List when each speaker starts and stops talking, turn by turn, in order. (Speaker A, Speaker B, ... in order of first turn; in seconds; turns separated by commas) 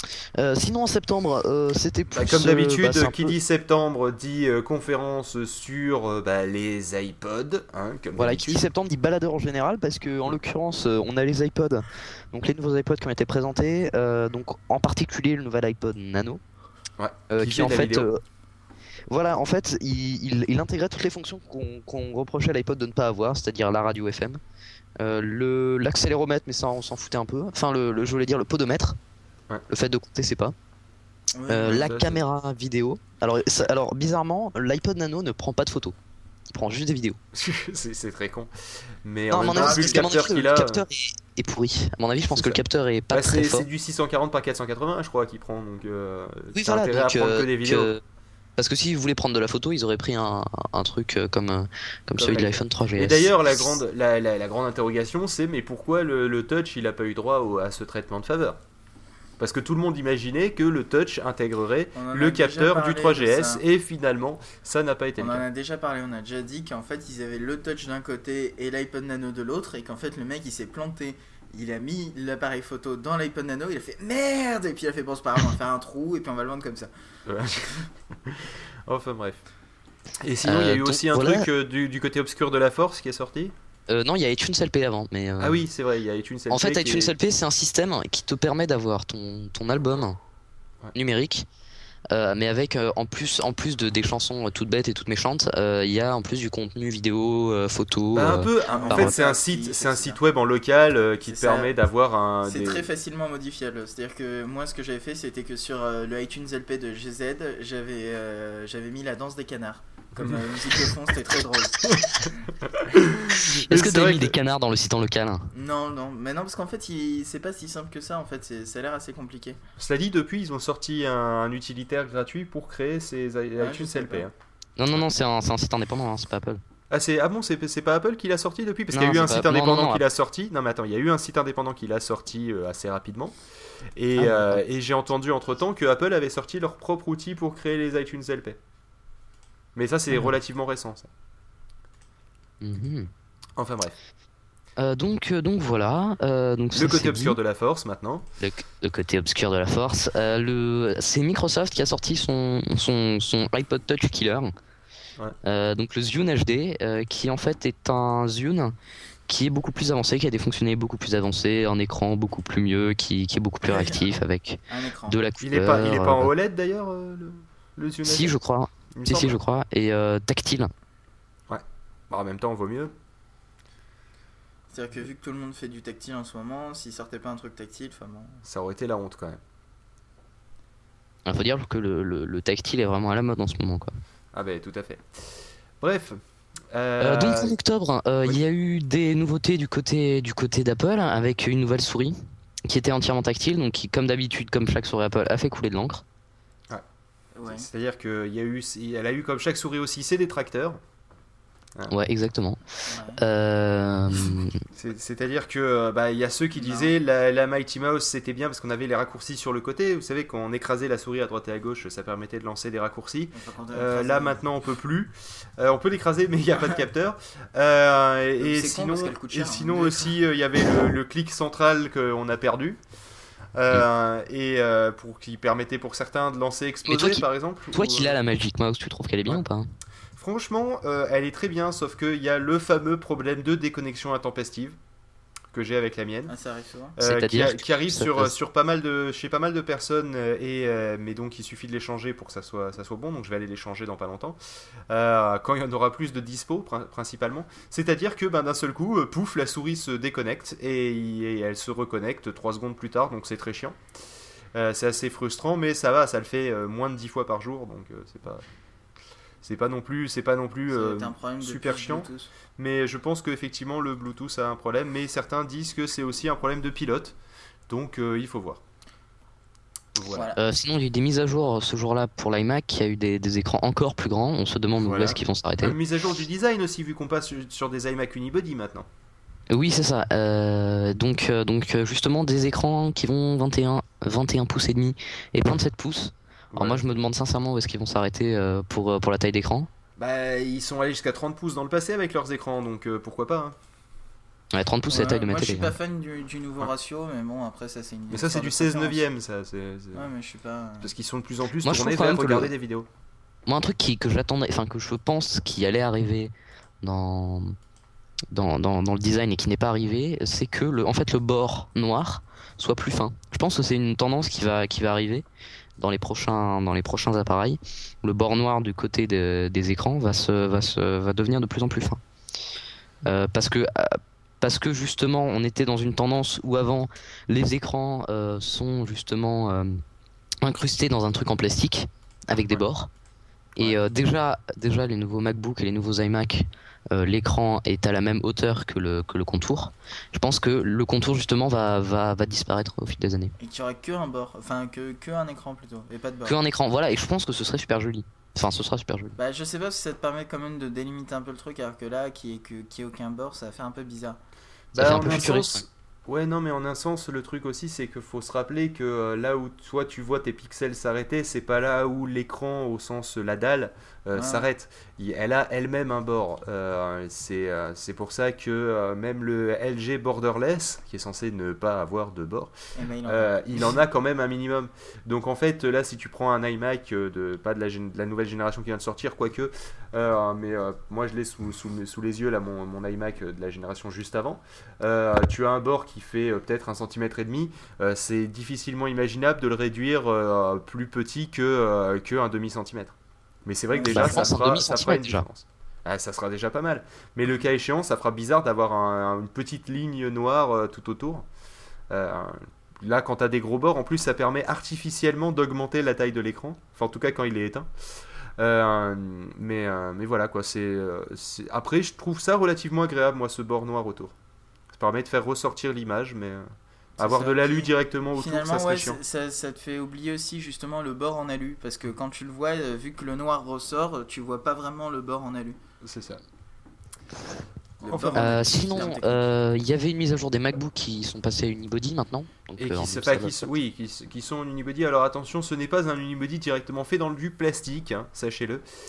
Speaker A: 0.3-3.4, Speaker B: 2.1-8.7, Speaker A: 8.2-16.4, Speaker B: 17.0-18.1, Speaker A: 17.3-18.2, Speaker A: 19.1-24.4, Speaker A: 25.0-29.0, Speaker A: 29.7-30.6, Speaker C: 31.4-31.9, Speaker A: 31.5-36.0, Speaker B: 31.7-32.2, Speaker A: 36.5-37.2, Speaker B: 37.3-38.5, Speaker B: 39.0-40.9, Speaker A: 39.3-43.7, Speaker C: 39.5-40.1, Speaker B: 42.3-47.9, Speaker A: 46.5-48.0, Speaker A: 48.6-53.3, Speaker B: 52.2-58.6, Speaker B: 59.4-65.5, Speaker C: 62.0-63.6, Speaker C: 65.2-76.9, Speaker B: 77.3-77.7, Speaker B: 78.2-79.4, Speaker B: 80.2-83.5, Speaker A: 80.4-81.5, Speaker A: 83.9-85.6, Speaker B: 85.4-87.1, Speaker A: 86.5-90.2, Speaker A: 90.9-91.5, Speaker A: 92.1-99.1, Speaker B: 98.1-102.9, Speaker C: 98.7-100.2, Speaker C: 101.2-101.7, Speaker C: 102.4-112.5, Speaker B: 111.9-114.4, Speaker A: 113.3-115.5, Speaker C: 115.5-119.6, Speaker B: 119.8-124.3, Speaker C: 123.6-124.3, Speaker A: 124.8-126.6, Speaker B: 126.9-133.3, Speaker A: 128.9-130.0, Speaker B: 134.0-138.6, Speaker A: 134.2-134.6, Speaker B: 139.8-141.1, Speaker A: 142.6-143.1, Speaker B: 143.6-144.0, Speaker A: 144.8-147.4, Speaker B: 146.7-148.3, Speaker A: 148.4-154.5, Speaker A: 155.4-158.7, Speaker A: 159.3-166.3, Speaker C: 163.7-164.1, Speaker C: 164.7-165.2, Speaker B: 165.4-168.4, Speaker A: 168.1-170.7, Speaker B: 168.9-169.4, Speaker B: 171.5-172.9, Speaker C: 174.7-178.4, Speaker B: 178.5-179.4, Speaker A: 181.3-183.9, Speaker B: 184.3-186.2, Speaker B: 186.7-187.6, Speaker A: 187.0-196.0, Speaker C: 197.3-197.7, Speaker B: 197.4-200.8, Speaker A: 201.9-204.6, Speaker C: 202.9-203.2, Speaker B: 204.8-222.8, Speaker C: 206.6-206.9, Speaker C: 213.3-214.4, Speaker C: 218.4-220.2, Speaker B: 223.6-228.2, Speaker A: 226.9-229.7, Speaker B: 230.2-234.8, Speaker B: 235.5-236.3, Speaker C: 236.3-236.9, Speaker B: 237.0-244.4, Speaker A: 237.0-238.3, Speaker B: 244.9-253.8, Speaker B: 254.5-258.4, Speaker B: 259.4-267.1, Speaker C: 260.7-262.3, Speaker B: 267.7-268.6, Speaker B: 269.9-270.3, Speaker C: 270.1-270.4, Speaker A: 270.4-275.8, Speaker B: 274.8-278.9, Speaker A: 279.5-289.7, Speaker B: 286.5-286.8, Speaker B: 290.0-293.6, Speaker A: 294.5-295.7, Speaker C: 294.9-299.0, Speaker B: 298.1-300.1, Speaker C: 299.9-300.9, Speaker B: 300.8-302.9, Speaker A: 301.6-302.5, Speaker A: 303.5-307.6, Speaker A: 308.3-315.2, Speaker A: 315.8-322.0, Speaker A: 323.0-329.8, Speaker A: 330.4-332.9, Speaker A: 333.6-343.3, Speaker C: 343.4-346.4, Speaker A: 346.3-349.2, Speaker C: 349.2-354.2, Speaker A: 354.7-355.6, Speaker B: 354.8-372.5, Speaker C: 364.1-364.5, Speaker C: 372.8-373.3, Speaker B: 373.1-401.3, Speaker C: 393.7-394.3, Speaker A: 393.8-395.2, Speaker B: 401.9-407.7, Speaker B: 408.4-414.1, Speaker B: 414.7-416.5, Speaker B: 417.0-419.0, Speaker C: 417.0-425.6, Speaker B: 425.8-426.2, Speaker C: 427.8-429.3, Speaker B: 427.9-428.4, Speaker A: 428.1-433.5, Speaker B: 432.6-438.6